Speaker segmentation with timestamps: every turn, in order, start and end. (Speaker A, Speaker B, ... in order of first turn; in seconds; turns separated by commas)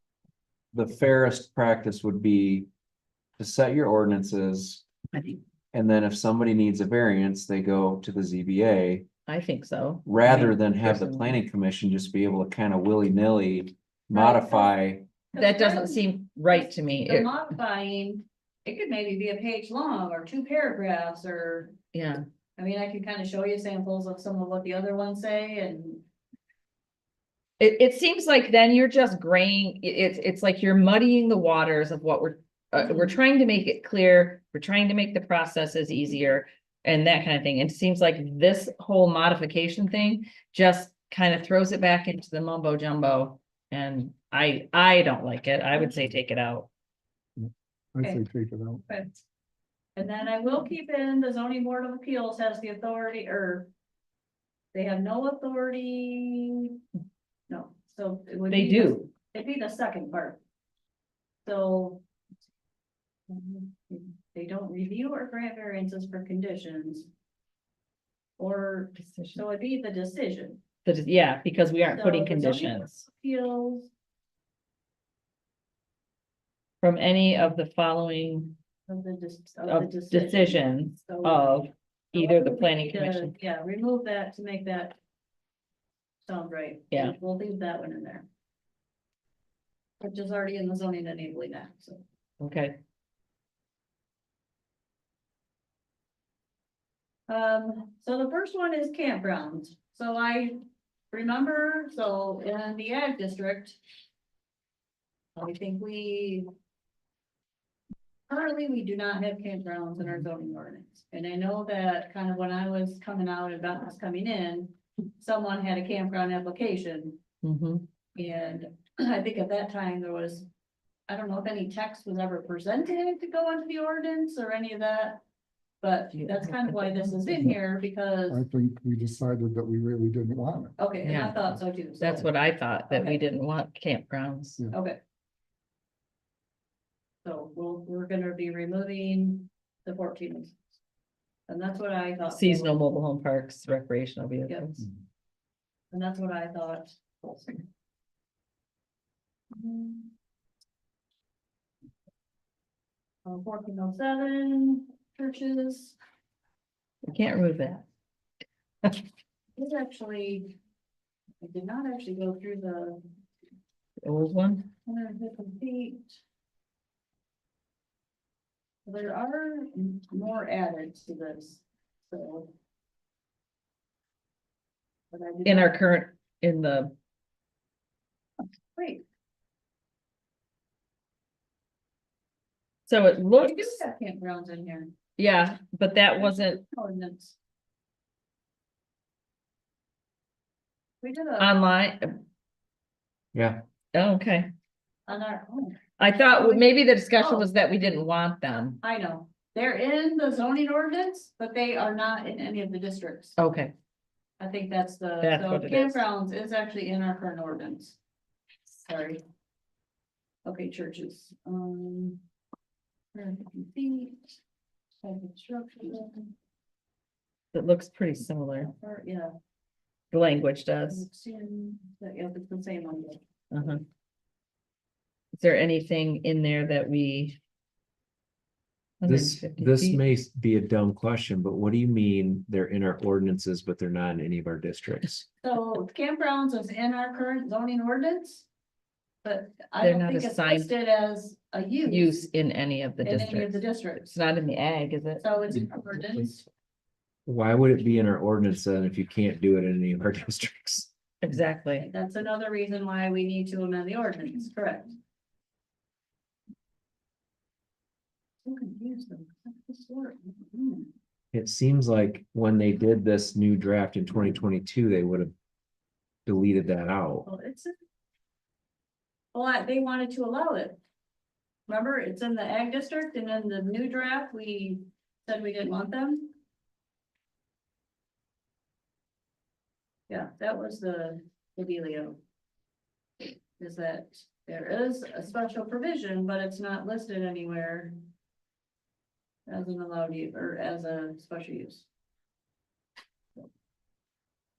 Speaker A: 0.7-2.7, Speaker A: 3.4-4.8, Speaker A: 5.7-9.1, Speaker B: 9.3-11.4, Speaker A: 10.1-15.1, Speaker C: 14.1-14.7, Speaker C: 15.3-21.8, Speaker B: 15.4-17.3, Speaker B: 21.9-22.2, Speaker C: 22.6-26.0, Speaker B: 27.6-46.7, Speaker C: 32.8-33.1, Speaker D: 47.4-48.8, Speaker C: 48.9-49.2, Speaker C: 50.0-53.7, Speaker C: 54.7-56.8, Speaker C: 57.5-60.4, Speaker B: 58.5-59.1, Speaker C: 61.4-62.0, Speaker C: 63.3-67.1, Speaker C: 68.4-70.6, Speaker B: 69.0-69.4, Speaker B: 70.8-73.0, Speaker C: 71.9-73.9, Speaker B: 76.8-78.6, Speaker C: 78.9-85.0, Speaker B: 79.7-83.3, Speaker C: 86.2-88.2, Speaker C: 90.0-92.0, Speaker B: 92.4-92.8, Speaker C: 97.3-100.6, Speaker C: 101.1-103.8, Speaker C: 105.3-106.5, Speaker C: 108.3-117.2, Speaker B: 117.4-117.8, Speaker C: 118.1-120.5, Speaker C: 121.1-125.2, Speaker C: 125.8-128.4, Speaker B: 126.1-127.5, Speaker D: 128.3-130.7, Speaker C: 130.8-132.3, Speaker B: 131.0-134.6, Speaker C: 132.9-133.2, Speaker C: 134.7-135.0, Speaker C: 137.2-140.5, Speaker C: 141.5-142.8, Speaker B: 142.3-144.9, Speaker C: 145.9-147.6, Speaker C: 149.5-150.1, Speaker C: 153.2-155.9, Speaker B: 157.0-157.8, Speaker C: 159.6-160.6, Speaker C: 161.4-163.0, Speaker B: 164.0-164.7, Speaker C: 164.8-166.2, Speaker C: 168.8-172.5, Speaker C: 175.1-175.8, Speaker B: 175.4-176.9, Speaker C: 178.8-179.0, Speaker B: 182.9-183.8, Speaker C: 183.4-185.0, Speaker B: 185.2-186.6, Speaker C: 186.2-187.3, Speaker C: 191.0-191.6, Speaker B: 191.4-192.2, Speaker A: 193.3-193.6, Speaker B: 193.9-194.5, Speaker C: 195.1-195.8, Speaker B: 196.0-198.8, Speaker C: 196.3-197.5, Speaker C: 198.8-203.4, Speaker B: 203.4-203.7, Speaker C: 204.4-208.0, Speaker B: 205.2-206.0, Speaker C: 208.7-209.2, Speaker C: 210.4-212.2, Speaker C: 213.1-214.4, Speaker C: 215.0-216.3, Speaker B: 217.5-218.7, Speaker C: 218.8-219.3, Speaker B: 220.1-221.1, Speaker C: 220.9-223.8, Speaker B: 223.5-223.8, Speaker B: 225.3-227.4, Speaker B: 229.0-230.0, Speaker A: 229.0-235.2, Speaker C: 235.4-238.5, Speaker C: 239.2-242.2, Speaker B: 239.8-240.7, Speaker B: 241.8-245.2, Speaker C: 243.0-244.2, Speaker C: 245.2-246.4, Speaker A: 247.2-250.9, Speaker B: 251.2-251.9, Speaker C: 251.8-255.0, Speaker C: 258.4-260.9, Speaker A: 261.3-265.3, Speaker A: 266.2-267.3, Speaker C: 267.2-267.7, Speaker C: 269.3-270.8, Speaker C: 271.7-276.3, Speaker C: 280.1-282.2, Speaker C: 283.6-287.9, Speaker C: 289.5-291.9